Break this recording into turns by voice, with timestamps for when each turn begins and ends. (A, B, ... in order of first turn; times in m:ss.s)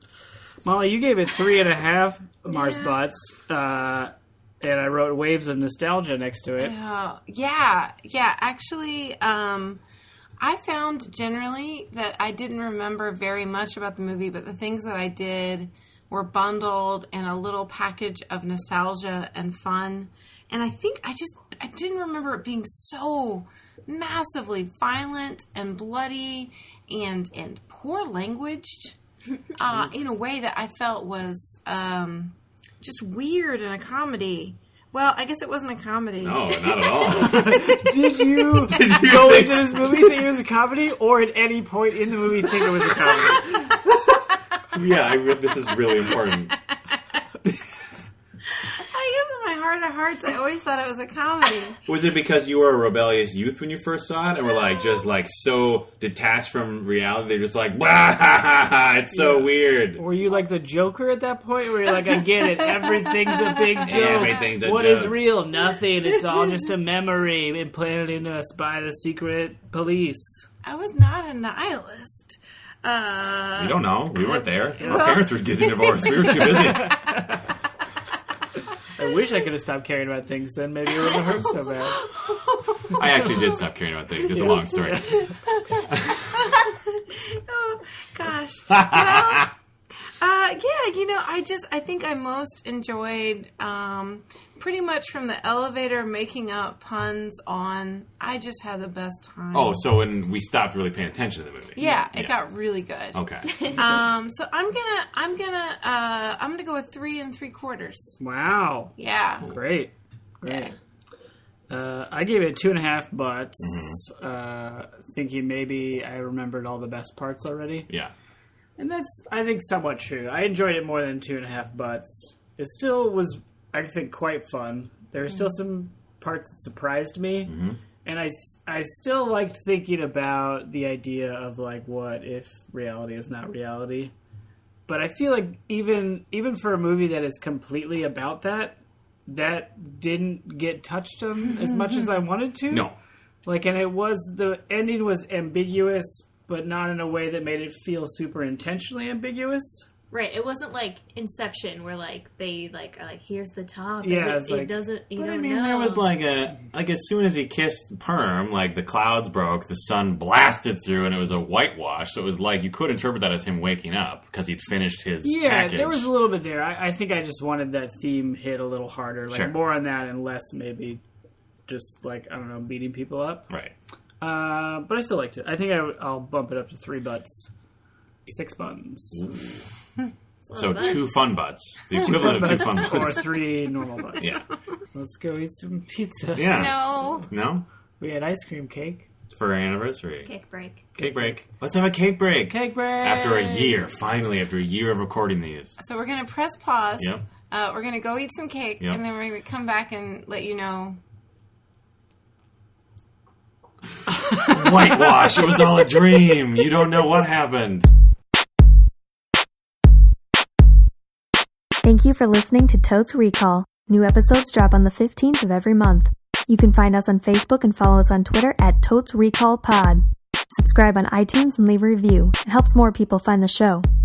0:00.6-0:06.8 A
0:02.5-0:03.0 B
0:06.6-0:09.8 B
0:10.4-0:29.0 B
0:29.6-0:36.8 B
0:36.2-0:40.1 C
0:37.0-0:43.8 A
0:44.7-0:46.6 C
0:47.4-0:47.8 C
0:48.6-0:51.8 B
0:51.9-1:00.0 C
0:59.1-1:10.5 A
1:03.8-1:05.4 C
1:10.6-1:16.4 B
1:13.6-1:17.1 C
1:14.8-1:15.2 A
1:16.2-1:17.4 A
1:19.0-1:22.1 A
1:22.2-1:23.1 B
1:22.9-1:25.3 C
1:24.3-1:25.3 A
1:25.4-1:29.6 B
1:25.9-1:26.2 C
1:28.7-1:29.5 C
1:30.2-1:39.9 B
1:39.5-1:42.3 C
1:41.8-1:48.2 B
1:43.1-1:43.6 C
1:48.2-1:50.8 A
1:49.0-1:49.5 B
1:50.4-1:50.7 B
1:51.7-1:57.9 A
1:53.6-1:54.0 C
1:58.8-2:14.1 A
2:07.5-2:07.8 C
2:14.9-2:22.9 A
2:22.7-2:23.0 C
2:23.4-2:29.9 A
2:30.1-2:36.1 D
2:34.0-2:34.7 A
2:35.2-2:46.1 C
2:45.2-2:51.0 A
2:51.7-2:53.5 A
2:54.2-2:57.5 A
2:58.3-2:59.4 A
2:59.1-2:59.6 C
3:00.4-3:01.2 D
3:00.5-3:03.4 C
3:02.0-3:04.3 A
3:04.9-3:06.9 A
3:06.4-3:07.7 C
3:06.4-3:07.3 B
3:08.0-3:09.1 A
3:09.3-3:10.3 C
3:10.2-3:10.9 D
3:11.0-3:11.4 A
3:11.0-3:15.8 C
3:12.5-3:13.9 A
3:15.8-3:21.0 B
3:24.3-3:27.9 C
3:31.8-3:40.0 E
3:40.6-3:43.8 E